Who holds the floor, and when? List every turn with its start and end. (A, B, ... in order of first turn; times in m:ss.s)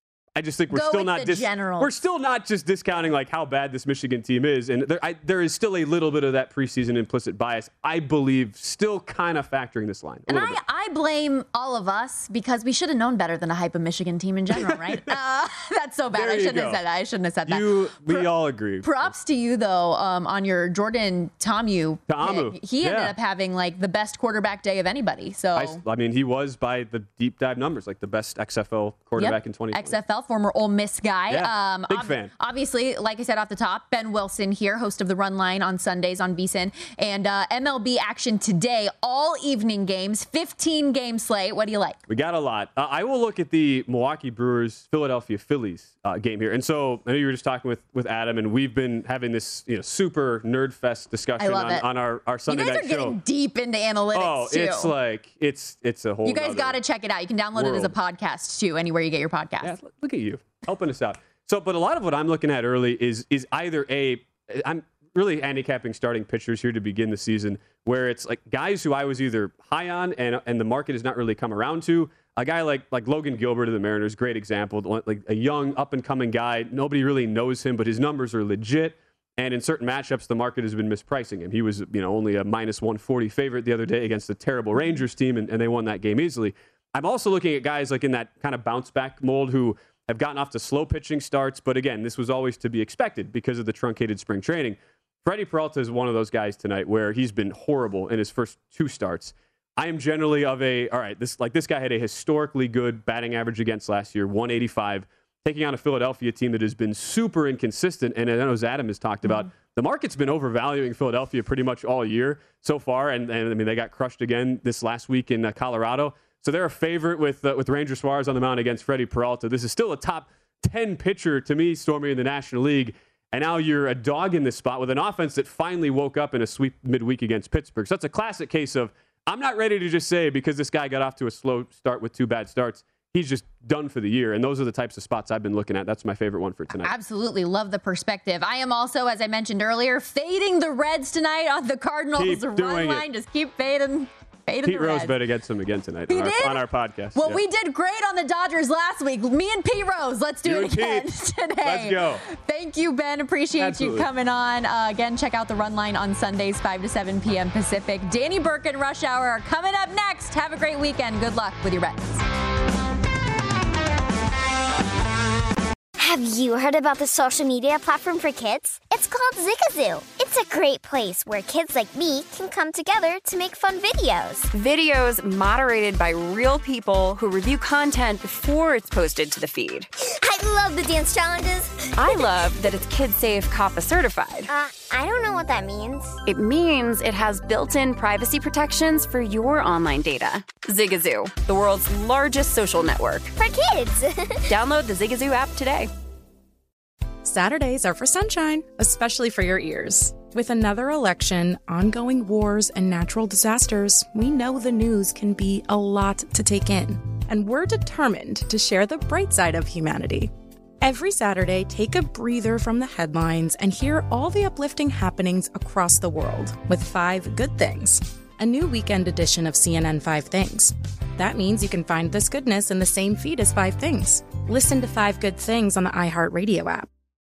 0:00.4-0:10.6 A
0:00.7-0:01.9 B
0:10.3-0:18.3 B
0:14.6-0:15.1 A
0:16.1-0:16.8 A
0:17.5-0:19.1 A
0:18.8-0:25.8 B
0:22.1-0:23.2 A
0:25.6-0:30.0 A
0:29.2-0:42.0 B
0:31.3-0:32.3 A
0:42.1-0:53.2 A
0:51.4-0:51.8 B
0:52.5-0:54.9 B
0:54.1-0:56.8 A
0:56.3-0:59.7 B
0:57.6-0:58.0 A
0:59.6-2:16.9 A
2:16.8-2:25.2 B
2:22.2-2:23.0 A
2:24.6-2:27.4 A
2:26.1-2:26.6 B
2:27.2-2:42.2 B
2:30.4-2:31.1 A
2:31.6-2:32.2 A
2:33.6-2:34.1 A
2:46.0-2:54.5 C
2:54.5-2:59.9 D
3:00.2-3:02.2 C
3:02.0-3:04.5 D
3:04.5-3:06.2 C
3:06.3-3:13.3 D
3:13.4-3:14.5 C
3:14.5-3:15.9 D
3:17.2-3:46.9 E